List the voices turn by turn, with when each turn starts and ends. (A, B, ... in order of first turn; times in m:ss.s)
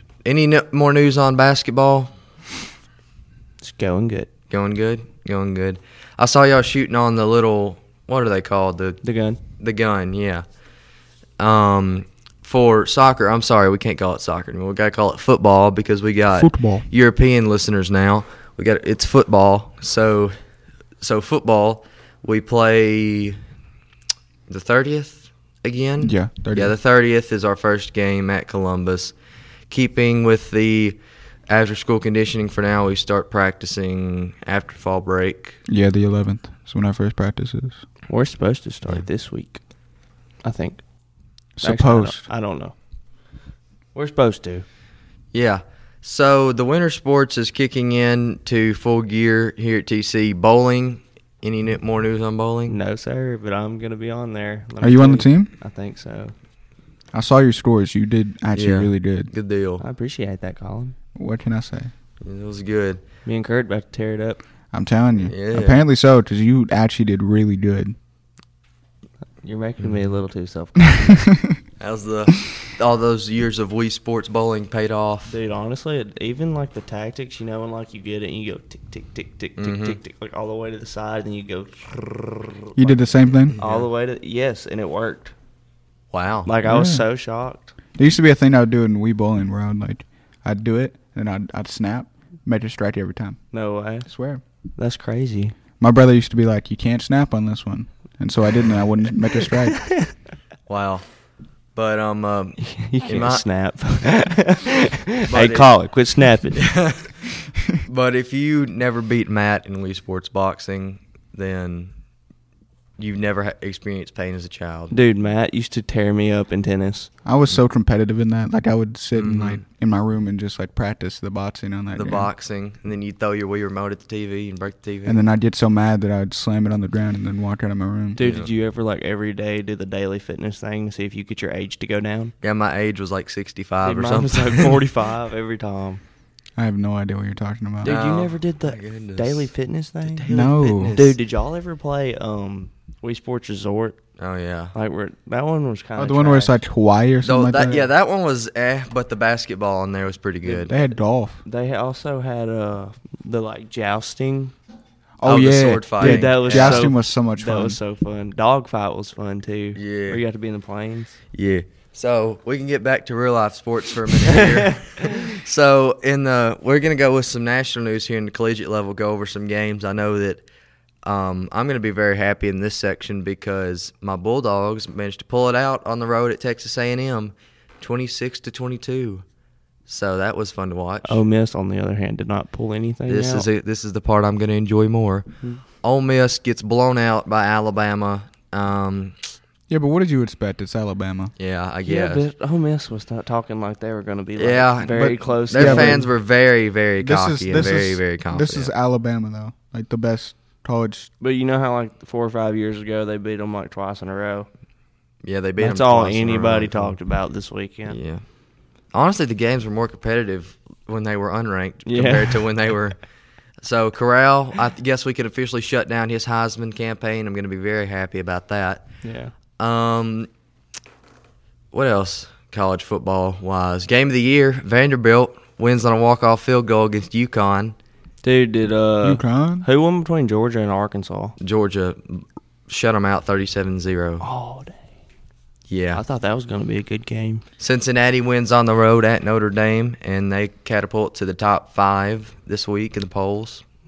0:00.2-0:02.1 A
0:03.6-0:04.3 B
0:04.5-0:09.0 A
0:09.0-0:09.4 B
0:09.6-0:10.4 A
0:11.4-0:20.3 A
0:16.3-0:16.8 C
0:21.0-0:23.4 A
0:24.5-0:29.1 A
0:26.0-0:26.7 C
0:29.7-0:35.6 A
0:35.7-0:37.8 C
0:38.1-0:39.6 B
0:40.4-0:40.8 B
0:41.6-0:42.2 C
0:41.6-0:42.7 B
0:43.9-0:44.6 B
0:45.3-0:52.8 A
0:52.7-0:56.3 B
0:54.8-0:55.5 C
0:57.1-0:59.3 C
0:58.5-0:59.8 A
0:59.8-1:00.9 B
1:01.2-1:01.9 C
1:02.2-1:03.0 A
1:03.2-1:04.4 B
1:04.7-1:08.0 C
1:05.2-1:05.8 A
1:09.4-1:11.3 B
1:11.8-1:15.4 A
1:15.2-1:25.3 B
1:19.6-1:20.0 A
1:22.8-1:23.6 C
1:23.5-1:23.9 A
1:26.1-1:26.5 A
1:26.4-1:27.7 B
1:26.6-1:27.0 C
1:28.0-1:33.4 C
1:33.5-1:34.1 B
1:34.0-1:34.4 C
1:34.8-1:35.6 B
1:35.8-1:39.8 C
1:39.4-1:40.1 B
1:40.7-1:41.0 A
1:41.8-1:43.4 A
1:42.6-1:46.7 B
1:45.3-1:45.7 A
1:46.6-1:47.1 A
1:47.8-1:51.9 A
1:53.0-1:55.0 A
1:54.9-1:57.1 B
1:57.2-2:02.3 C
1:59.1-1:59.6 A
2:01.9-2:05.2 A
2:05.0-2:08.2 C
2:08.1-2:12.3 B
2:08.2-2:08.5 A
2:12.4-2:14.8 A
2:13.8-2:16.0 B
2:16.6-2:17.9 C
2:17.8-2:19.5 A
2:17.8-2:20.3 B
2:20.0-2:21.2 A
2:20.3-2:21.0 C
2:20.9-2:24.0 B
2:24.2-2:24.7 A
2:24.7-2:26.6 B
2:26.0-2:27.9 C
2:27.2-2:30.7 A
2:30.4-2:34.5 B
2:30.7-2:31.4 C
2:35.2-2:37.8 C
2:35.2-2:36.9 A
2:36.0-2:41.2 B
2:39.7-2:40.2 A
2:41.3-2:50.4 A
2:44.3-2:45.1 B
2:51.0-2:59.2 A
2:59.9-3:01.2 A
3:01.0-3:03.5 B
3:03.1-3:05.2 A
3:05.8-3:09.2 A
3:09.7-3:11.3 C
3:11.4-3:12.2 A
3:11.8-3:16.1 B
3:14.4-3:18.7 A
3:14.9-3:16.1 C
3:17.0-3:21.1 C
3:21.2-3:24.5 B
3:25.2-3:27.0 A
3:25.6-3:28.0 B
3:27.9-3:28.2 A
3:28.9-3:33.0 A
3:31.8-3:32.4 B
3:33.6-3:38.8 A
3:39.0-3:39.3 B
3:39.6-3:40.3 A
3:41.7-3:47.7 A
3:48.2-3:51.4 B
3:49.0-3:49.6 C
3:51.4-3:54.2 A
3:54.2-3:54.8 B
3:55.7-3:56.0 A
3:55.9-3:57.4 B
3:57.6-4:03.6 A